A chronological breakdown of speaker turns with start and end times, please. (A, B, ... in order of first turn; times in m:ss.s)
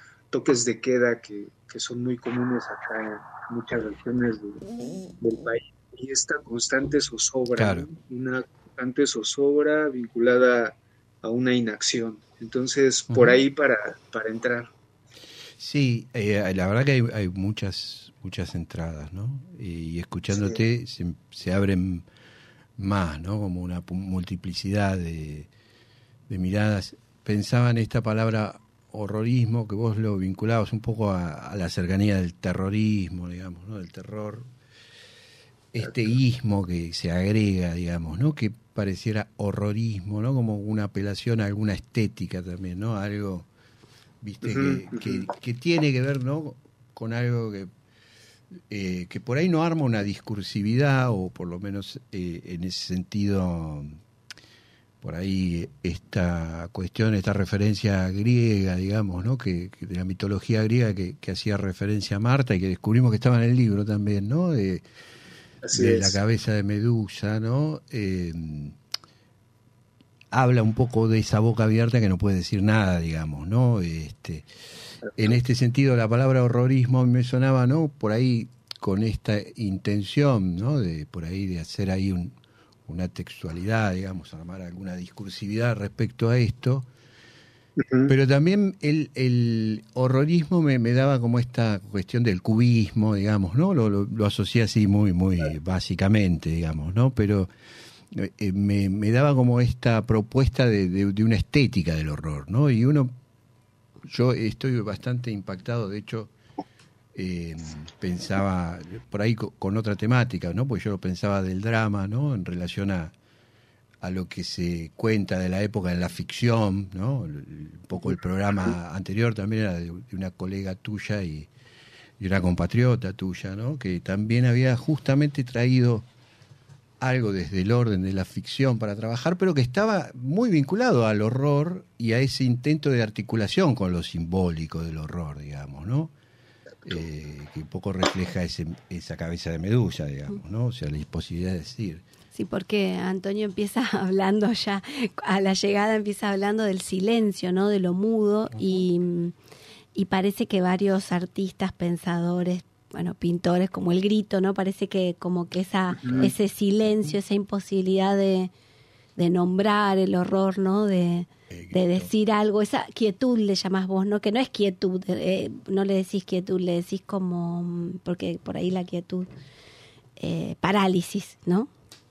0:00.3-0:04.6 A
0:05.2-0:14.7 A
0:07.6-0:07.9 B
0:13.1-0:13.4 B
0:15.6-0:22.1 B
0:20.3-0:20.6 A
0:22.8-0:25.5 B
0:26.3-0:34.5 B
0:35.7-0:43.5 B
0:44.2-0:47.7 B
0:44.4-0:45.3 A
0:48.7-0:54.0 B
0:55.0-1:04.8 B
1:05.6-1:06.2 A
1:05.7-1:08.8 B
1:10.3-1:14.5 B
1:15.2-1:22.4 B
1:22.9-1:26.9 B
1:27.8-1:28.1 A
1:28.1-1:37.5 B
1:38.1-1:43.1 B
1:44.0-1:46.3 B
1:47.1-1:53.1 B
1:54.0-2:01.5 B
2:02.2-2:06.1 B
2:07.0-2:16.1 B
2:16.9-2:22.0 B
2:22.3-2:29.3 C
2:28.5-2:28.8 B
2:30.0-2:38.5 C
2:36.0-2:36.3 A
2:39.2-2:49.3 C
2:41.5-2:42.1 B
2:50.2-2:51.7 C